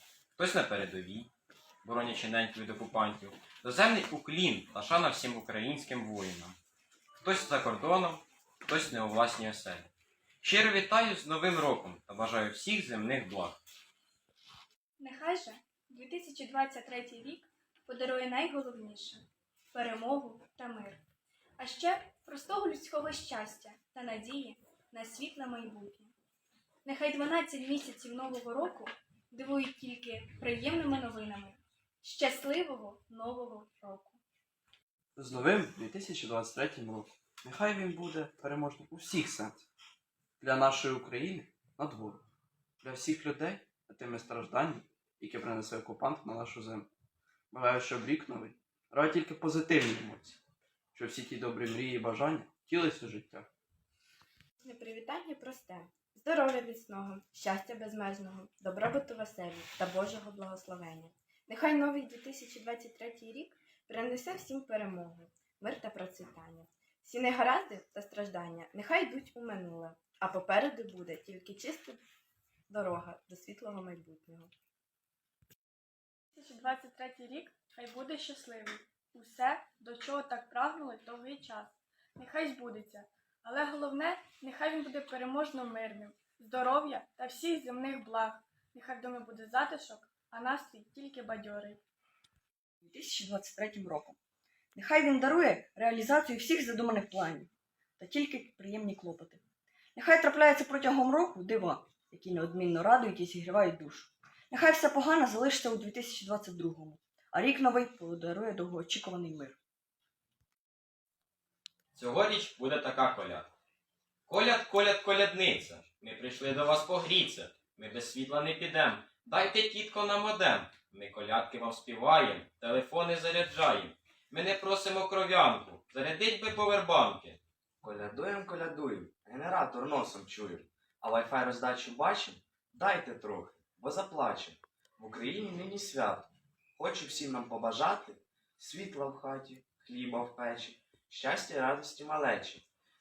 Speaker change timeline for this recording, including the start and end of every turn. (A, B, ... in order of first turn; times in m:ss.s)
0:00.4-0:01.3 A
0:01.8-0:06.6 A
0:07.2-0:09.9 A
0:10.4-0:13.6 A
0:15.0-0:21.0 B
0:21.6-0:26.1 B
0:26.8-0:34.2 B
0:35.2-0:39.6 C
0:40.4-0:42.2 C
0:42.8-0:46.9 C
0:47.5-0:50.4 C
0:50.9-0:53.5 C
0:54.6-1:12.0 D
1:12.7-1:14.5 D
1:16.3-1:31.8 B
1:32.8-1:34.2 E
1:34.7-1:39.4 E
1:39.9-1:49.6 E
1:51.9-1:53.5 A
1:54.3-2:07.4 A
2:07.8-2:22.6 F